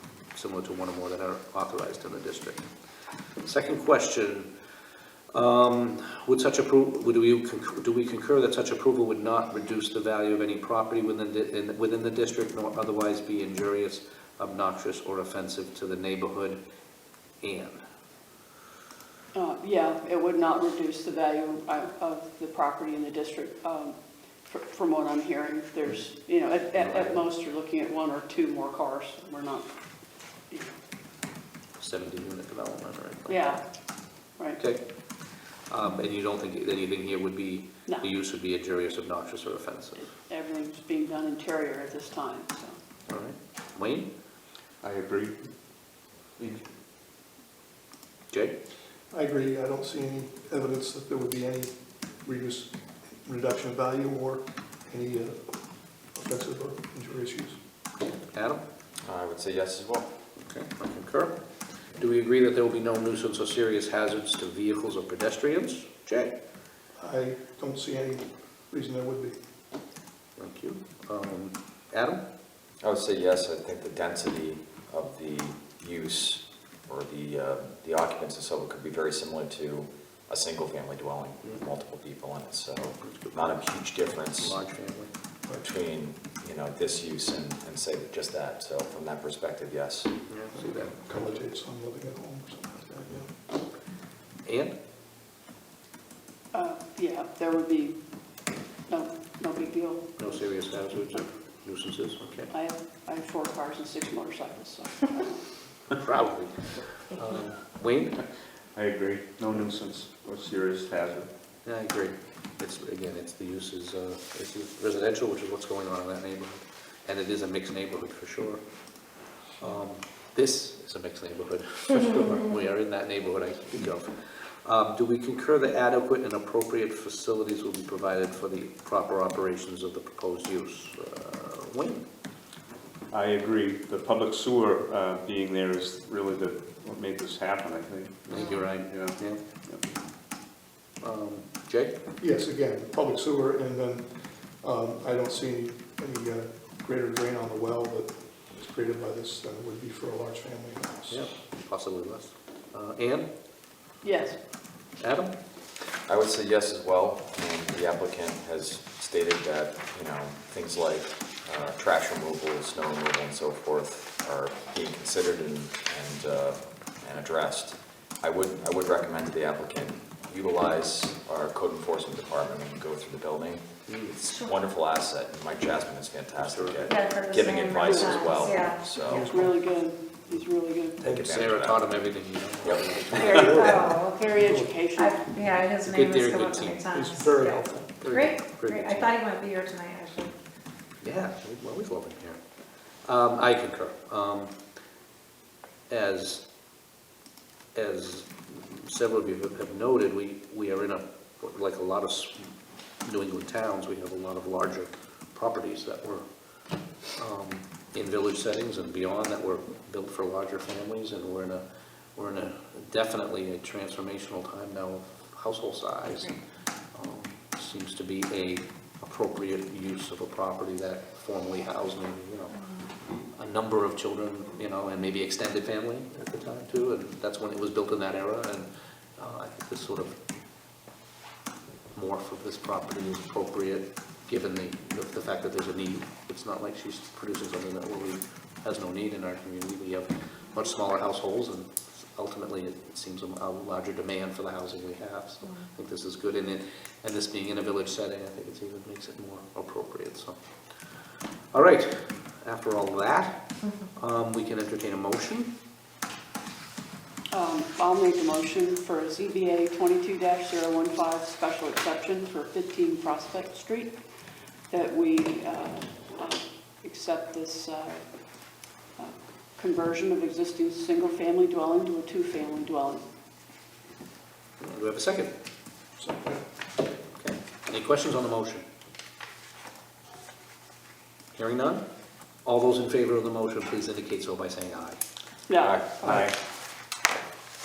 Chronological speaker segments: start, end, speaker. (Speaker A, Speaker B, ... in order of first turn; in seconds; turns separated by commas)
Speaker A: 0.3-2.6, Speaker A: 3.4-4.5, Speaker A: 5.3-16.6, Speaker A: 17.4-17.8, Speaker B: 19.3-23.9, Speaker B: 24.5-29.7, Speaker A: 26.8-27.2, Speaker B: 30.5-30.8, Speaker A: 31.8-33.5, Speaker B: 33.3-33.6, Speaker A: 34.6-34.8, Speaker A: 35.7-40.1, Speaker B: 40.1-42.8, Speaker A: 43.1-44.1, Speaker C: 44.8-45.5, Speaker C: 46.4-46.7, Speaker D: 49.1-55.5, Speaker D: 56.1-57.6, Speaker A: 58.3-58.6, Speaker E: 59.0-60.1, Speaker A: 60.4-61.4, Speaker A: 62.0-66.3, Speaker D: 67.0-69.3, Speaker A: 70.4-72.2, Speaker E: 72.8-84.6, Speaker A: 83.0-85.1, Speaker E: 85.6-90.1, Speaker A: 90.3-91.3, Speaker D: 91.1-93.3, Speaker A: 94.4-94.8, Speaker B: 96.5-98.0, Speaker B: 98.9-100.0, Speaker A: 100.2-102.5, Speaker B: 102.5-105.4, Speaker A: 106.0-108.2, Speaker C: 108.7-111.3, Speaker A: 111.6-118.6, Speaker A: 119.6-132.1, Speaker C: 133.1-139.8, Speaker A: 138.3-139.4, Speaker A: 141.0-141.9, Speaker D: 142.2-151.2, Speaker A: 151.1-153.3, Speaker B: 154.0-154.4, Speaker A: 155.0-155.3, Speaker E: 156.1-179.2, Speaker F: 174.2-174.5, Speaker A: 176.4-176.9, Speaker F: 176.8-179.0, Speaker B: 177.8-178.5, Speaker D: 179.0-179.6, Speaker B: 179.1-181.0, Speaker D: 181.0-181.3, Speaker E: 181.0-182.0, Speaker A: 181.2-183.9, Speaker E: 182.6-183.7, Speaker B: 183.2-185.2, Speaker F: 183.3-184.3, Speaker D: 184.4-184.8, Speaker F: 184.9-190.3, Speaker A: 185.8-186.8, Speaker D: 186.9-188.1, Speaker A: 188.0-189.1, Speaker A: 191.0-192.4, Speaker A: 193.0-194.6, Speaker A: 195.9-196.4, Speaker A: 197.7-202.5, Speaker A: 203.0-206.2, Speaker A: 207.2-211.6, Speaker A: 212.2-216.3, Speaker A: 216.9-222.6, Speaker F: 222.5-222.8, Speaker A: 223.2-230.2, Speaker A: 231.9-250.4, Speaker A: 251.5-255.5, Speaker B: 257.3-264.0, Speaker B: 264.7-268.1, Speaker B: 269.0-273.0, Speaker A: 274.6-275.3, Speaker D: 276.0-276.4, Speaker A: 277.2-278.6, Speaker A: 281.3-281.9, Speaker A: 282.4-285.0, Speaker B: 285.5-286.3, Speaker E: 285.6-285.9, Speaker C: 286.0-286.3